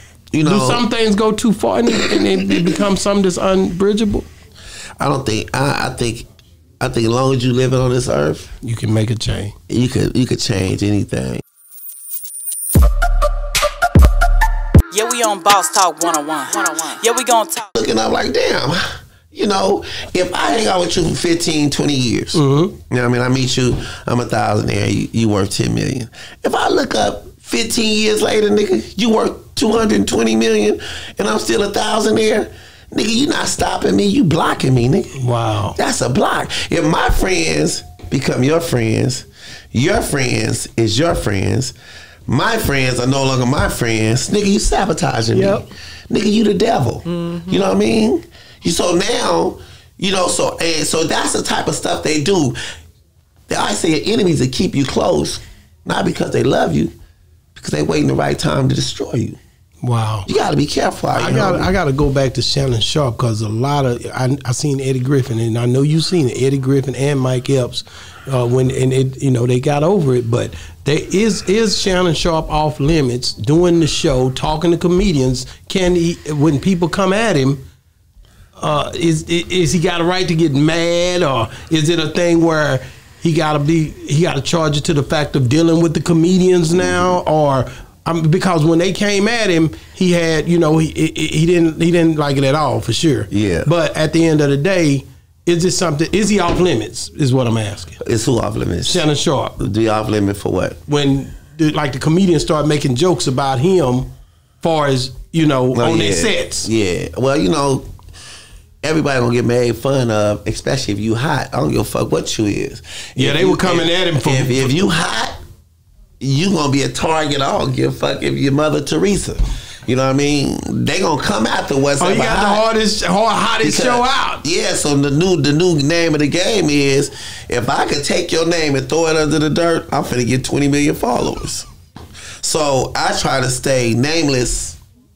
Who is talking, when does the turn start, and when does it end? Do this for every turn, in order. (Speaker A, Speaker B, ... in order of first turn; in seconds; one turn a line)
Speaker A: 0.3-0.8
Speaker B: 0.4-4.3
Speaker A: 5.0-6.3
Speaker A: 6.8-8.5
Speaker B: 8.6-9.6
Speaker A: 9.7-11.4
Speaker C: 14.9-17.7
Speaker A: 17.8-35.1
Speaker B: 22.3-22.8
Speaker B: 35.2-35.8
Speaker A: 35.8-41.7
Speaker A: 42.3-52.6
Speaker B: 45.3-45.6
Speaker A: 53.5-56.9
Speaker A: 57.6-59.4
Speaker B: 59.8-60.3
Speaker A: 60.3-61.7
Speaker B: 61.1-77.6
Speaker B: 78.6-98.0
Speaker A: 93.3-93.7
Speaker A: 98.0-99.0
Speaker B: 98.9-99.6
Speaker A: 99.6-100.8
Speaker B: 100.9-106.7
Speaker A: 105.7-107.9
Speaker A: 108.8-115.4
Speaker B: 113.2-114.8
Speaker A: 116.2-122.6
Speaker B: 122.0-124.4
Speaker A: 123.6-131.7
Speaker A: 132.4-134.8